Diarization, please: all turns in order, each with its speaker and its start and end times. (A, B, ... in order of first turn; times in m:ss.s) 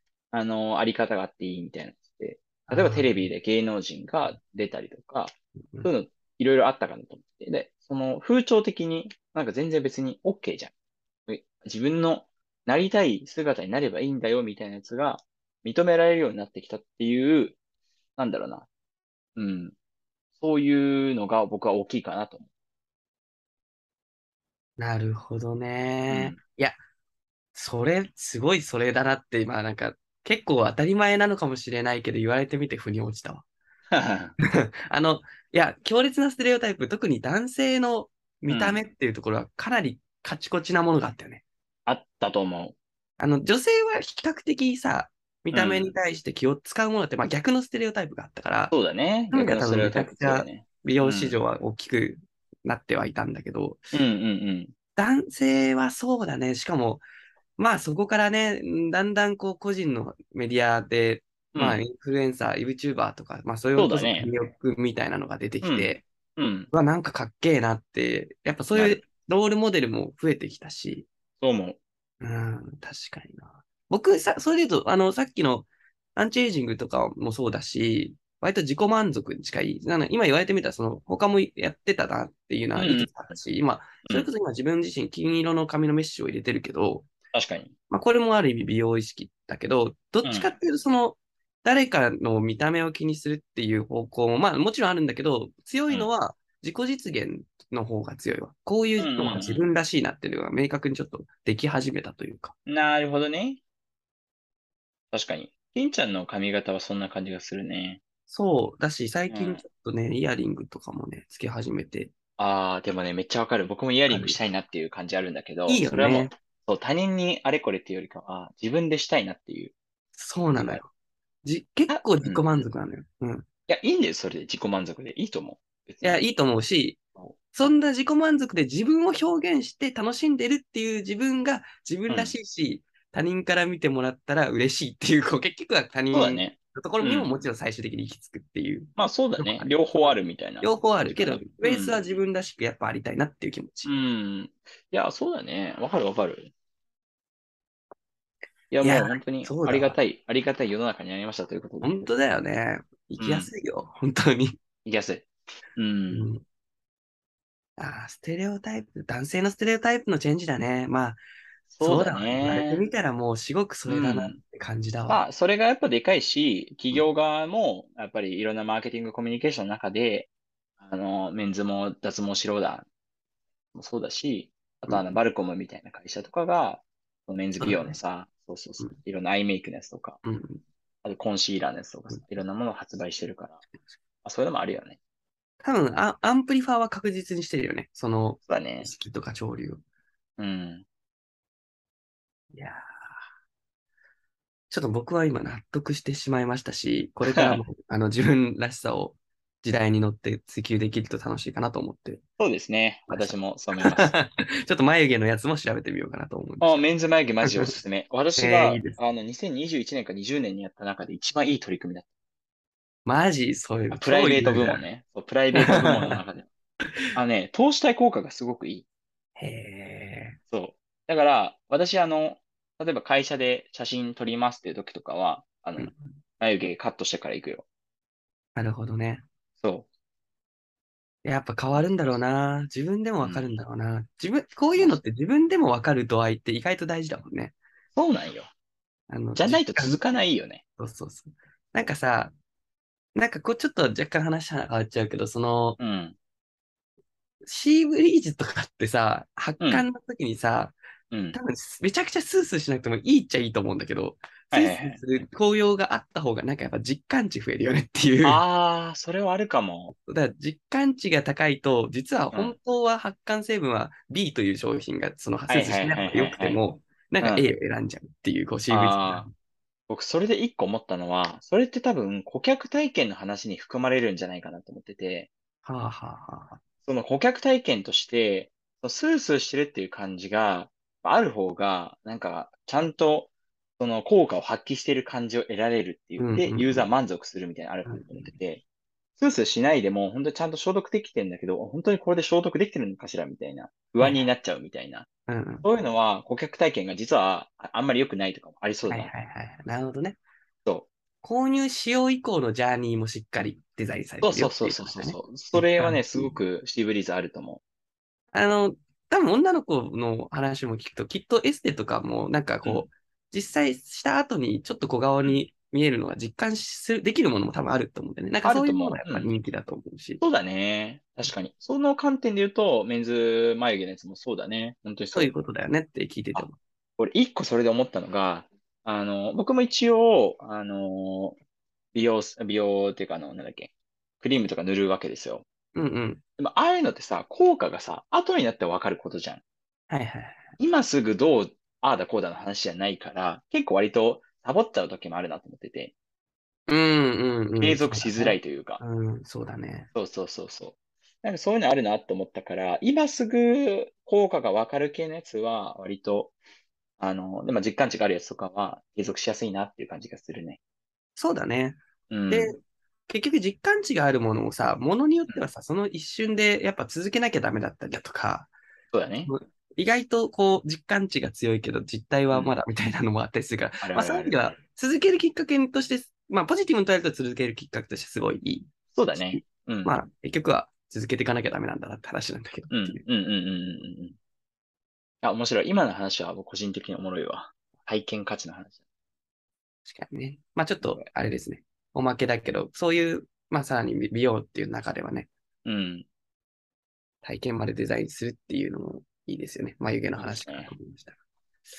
0:00.3-0:10.7 A
0:02.7-0:03.3 B
0:11.3-0:17.6 A
0:18.2-0:18.7 A
0:19.4-0:19.7 A
0:20.4-0:22.5 A
0:24.8-0:26.8 B
0:26.1-0:26.4 A
0:27.5-0:33.4 B
0:33.9-0:34.3 A
0:34.4-0:41.4 B
0:38.5-0:38.8 A
0:41.8-0:42.8 A
0:43.2-0:48.7 B
0:45.5-0:45.9 A
0:48.7-0:51.4 A
0:49.3-0:53.8 B
0:53.9-0:54.7 A
0:55.0-0:57.0 B
0:57.6-1:06.0 B
1:01.5-1:01.8 A
1:03.8-1:04.3 A
1:05.6-1:06.7 A
1:06.7-1:11.1 B
1:08.7-1:09.0 A
1:11.4-1:11.8 A
1:12.2-1:27.1 B
1:22.8-1:23.4 A
1:24.0-1:24.3 A
1:27.3-1:27.7 A
1:27.9-1:42.5 B
1:30.2-1:30.5 A
1:39.0-1:39.7 A
1:42.7-1:43.6 A
1:45.1-1:48.0 A
1:48.3-1:52.1 B
1:49.3-1:49.6 A
1:52.4-1:59.7 A
1:54.1-1:54.4 B
1:55.7-1:56.3 B
2:00.2-2:00.9 B
2:00.5-2:00.8 A
2:01.4-2:03.4 B
2:01.9-2:02.5 A
2:03.7-2:06.2 A
2:06.0-2:07.0 B
2:07.2-2:07.7 A
2:07.5-2:23.9 B
2:12.1-2:12.3 A
2:16.1-2:17.3 A
2:19.0-2:22.0 A
2:23.8-2:26.5 A
2:28.7-2:32.0 A
2:28.8-2:30.0 B
2:31.8-2:34.6 B
2:33.2-2:33.5 A
2:34.8-2:36.3 A
2:36.1-2:36.4 B
2:37.8-2:41.2 B
2:41.7-2:42.9 A
2:41.8-2:45.2 B
2:43.9-2:44.4 A
2:45.1-2:50.3 A
2:50.8-2:52.9 A
2:53.7-3:00.2 A
2:54.9-2:55.2 B
2:57.6-2:58.0 B
3:00.2-3:00.6 B
3:01.0-3:03.6 A
3:04.2-3:05.0 A
3:05.6-3:09.8 B
3:08.5-3:08.9 A
3:10.4-3:10.8 A
3:12.5-3:12.9 B
3:14.7-3:22.2 B
3:17.2-3:17.6 A
3:22.4-3:24.1 A
3:23.1-3:26.8 B
3:26.6-3:32.1 A
3:27.4-3:27.7 B
3:28.4-3:29.0 B
3:33.0-3:34.8 B
3:33.9-3:36.5 A
3:35.5-3:36.2 B
3:37.1-3:38.8 A
3:39.4-3:40.4 B
3:40.5-3:47.6 A
3:45.8-3:46.2 B
3:48.6-3:49.2 B
3:49.6-3:49.9 A
3:51.2-3:57.5 B
3:53.2-3:53.5 A
3:58.0-3:58.5 A
3:59.1-4:00.0 B
3:59.4-4:00.6 A
4:00.8-4:02.3 B
4:03.1-4:05.8 B
4:05.8-4:06.2 A
4:07.4-4:10.7 B
4:09.6-4:09.8 A
4:11.1-4:11.4 A
4:11.3-4:18.4 B
4:14.5-4:15.0 A
4:18.2-4:19.9 A
4:19.9-4:29.3 B
4:25.5-4:26.6 A
4:27.2-4:27.5 A
4:28.7-4:29.3 A
4:29.9-4:35.3 A
4:35.6-4:36.6 B
4:36.8-4:48.6 A
4:46.2-4:46.9 B
4:47.8-4:48.3 B
4:49.2-4:55.1 A
4:54.0-4:54.3 B
4:55.3-4:55.6 B
4:55.6-4:59.1 A
4:58.9-5:00.2 B
5:01.2-5:06.4 B
5:04.2-5:07.6 A
5:08.3-5:20.2 B
5:12.6-5:12.9 A
5:18.4-5:19.3 A
5:20.2-5:25.3 A
5:25.1-5:26.6 B
5:27.0-5:31.4 A
5:31.9-5:35.4 A
5:35.7-5:36.2 B
5:36.4-5:39.4 A
5:39.9-5:40.5 B
5:40.6-5:45.9 A
5:46.7-5:49.9 B
5:47.6-5:48.8 A
5:49.9-5:56.3 A
5:57.0-6:00.6 A
6:01.2-6:01.8 B
6:02.1-6:02.5 A
6:02.3-6:08.5 B
6:08.9-6:09.3 A
6:09.3-6:23.0 B
6:12.3-6:12.6 A
6:13.8-6:14.4 A
6:18.9-6:20.0 A
6:22.7-6:24.2 A
6:25.2-6:28.8 A
6:29.8-6:35.3 B
6:30.8-6:31.1 A
6:35.6-6:36.0 A
6:37.2-6:41.2 B
6:40.2-6:40.7 A